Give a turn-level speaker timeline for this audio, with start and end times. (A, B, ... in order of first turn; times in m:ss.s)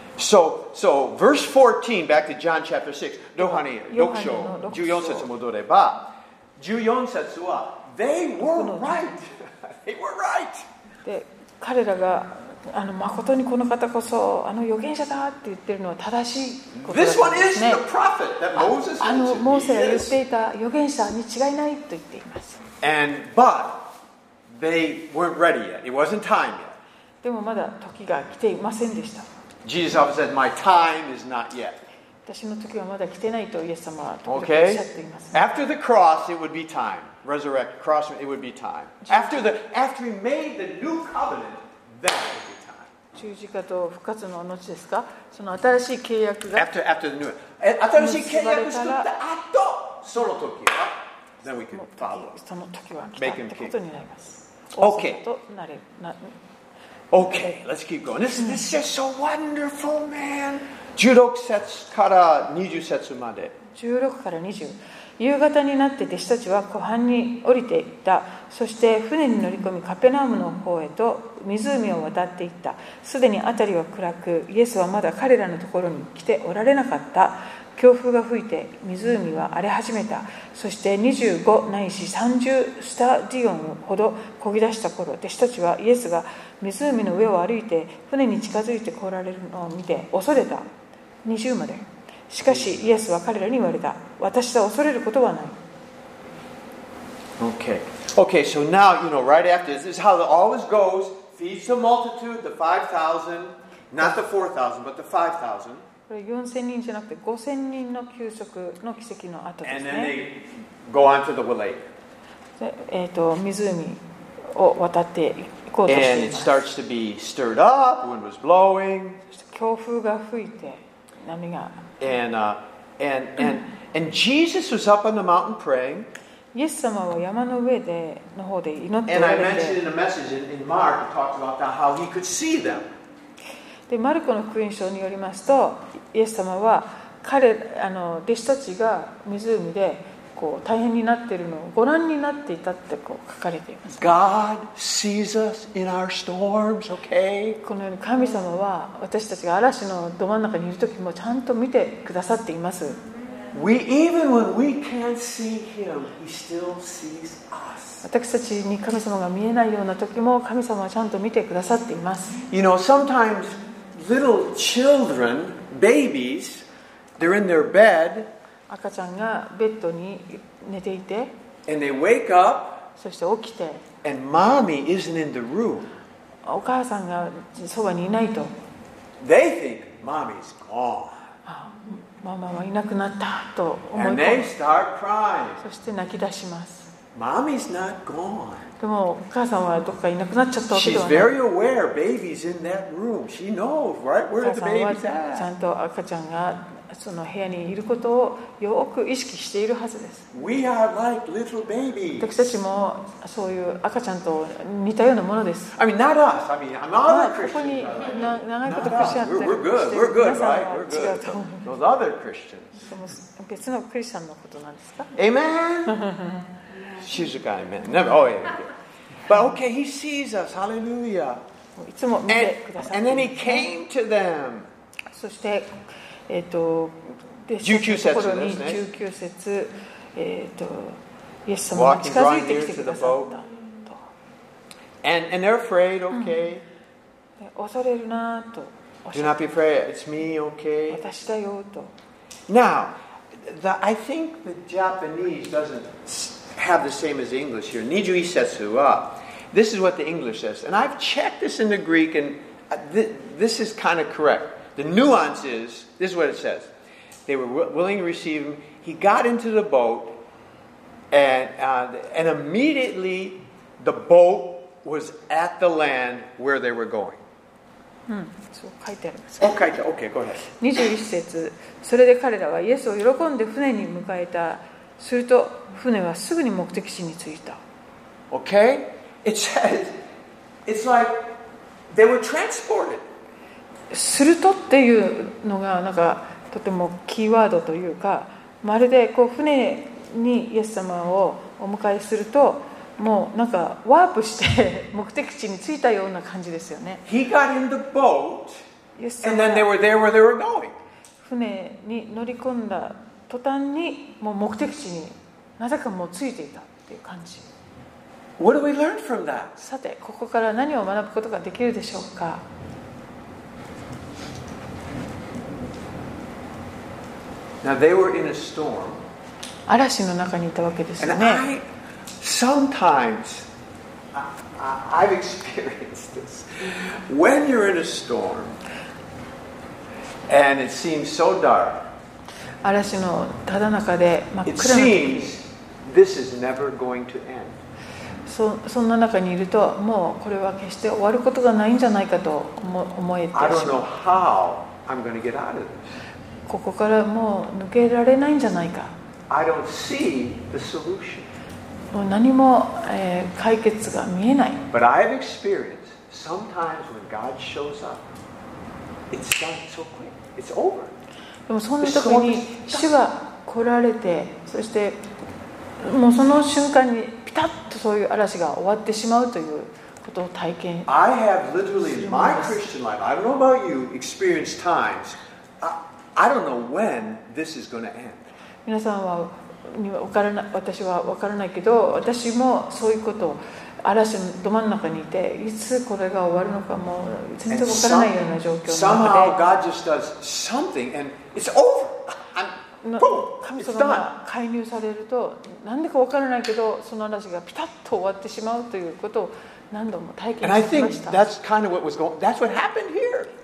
0:00.2-0:10.7 A
0:03.4-0:05.3 B
0:08.4-0:09.1 B
0:11.0-0:17.8 B
0:16.8-0:20.2 A
0:18.6-0:22.6 B
0:22.8-0:23.9 A
0:24.5-0:26.8 A
0:27.2-0:29.3 B
0:29.6-0:31.8 A
0:32.3-0:35.4 B
0:34.3-0:42.9 A
0:39.0-0:39.4 B
0:43.1-0:46.7 B
0:46.5-0:52.4 A
0:48.0-0:49.1 B
0:51.7-0:56.4 B
0:53.2-0:53.8 A
0:54.8-0:55.2 A
0:57.1-1:03.6 A
0:58.4-0:58.6 B
1:03.7-1:30.7 B
1:31.2-1:35.6 B
1:37.4-1:45.8 A
1:46.1-1:50.2 B
1:49.6-1:51.9 A
1:52.6-1:56.6 B
1:55.9-1:59.2 A
1:59.3-2:01.9 B
2:02.0-2:06.1 A
2:06.5-2:09.8 B
2:09.1-2:12.9 A
2:13.9-2:24.0 B
2:23.9-2:27.6 A
2:27.6-2:33.0 B
2:33.5-2:38.0 A
2:38.0-2:42.5 B
2:42.5-2:46.6 A
2:47.2-2:48.3 A
2:48.7-2:51.3 B
2:51.7-2:52.8 A
2:53.0-2:53.8 B
2:54.0-2:55.9 A
2:56.4-2:58.5 B
2:59.2-3:01.2 A
3:01.4-3:04.5 B
3:03.9-3:05.6 A
3:05.6-3:06.9 B
3:07.1-3:08.7 A
3:08.8-3:11.3 B
3:10.7-3:15.5 A
3:14.4-3:20.3 B
3:20.3-3:22.3 A
3:22.2-3:25.8 B
3:25.8-3:32.8 A
3:27.0-3:31.7 B
3:32.8-3:35.1 B
3:35.1-3:36.1 A
3:35.9-3:36.4 B
3:37.0-3:38.7 A
3:39.3-3:41.4 A
3:41.8-3:43.7 B
3:42.3-3:44.7 A
3:45.1-3:45.8 B
3:46.3-3:54.0 B
3:47.6-3:48.8 A
3:51.7-3:53.3 A
3:55.0-3:56.6 A
3:57.4-3:59.4 B
3:59.1-4:01.0 A
4:00.9-4:01.9 B
4:02.5-4:16.7 A
4:17.3-4:20.2 A
4:21.1-4:27.2 A
4:28.1-4:29.6 B
4:29.4-4:30.4 A
4:30.6-4:37.6 B
4:38.3-4:40.0 A
4:40.6-4:41.3 A
4:41.9-4:43.0 A
4:43.9-4:57.0 B
4:57.0-4:58.6 A
4:59.0-4:59.7 B
4:59.2-5:00.8 A
5:01.2-5:07.5 B
5:08.4-5:09.6 A
5:09.6-5:12.4 B
5:17.6-5:19.0 A
5:19.7-5:21.4 B
5:21.0-5:21.6 A
5:22.2-5:23.4 A
5:24.1-5:28.6 A
5:30.3-5:31.8 A
5:32.6-5:35.4 B
5:34.4-5:37.6 A
5:38.3-5:43.9 B
5:43.3-5:45.9 A
5:46.5-5:48.9 B
5:49.3-5:51.3 A
5:51.9-5:54.7 B
5:54.7-5:58.1 A
5:59.1-6:00.9 A
6:01.5-6:05.0 B
6:01.8-6:02.9 A
6:05.8-6:10.9 B
6:10.9-6:18.3 A
6:11.8-6:12.6 B
6:18.6-6:29.5 B
6:27.5-6:28.1 A
6:28.6-6:34.1 A
6:32.8-6:41.2 B
6:40.4-6:43.3 A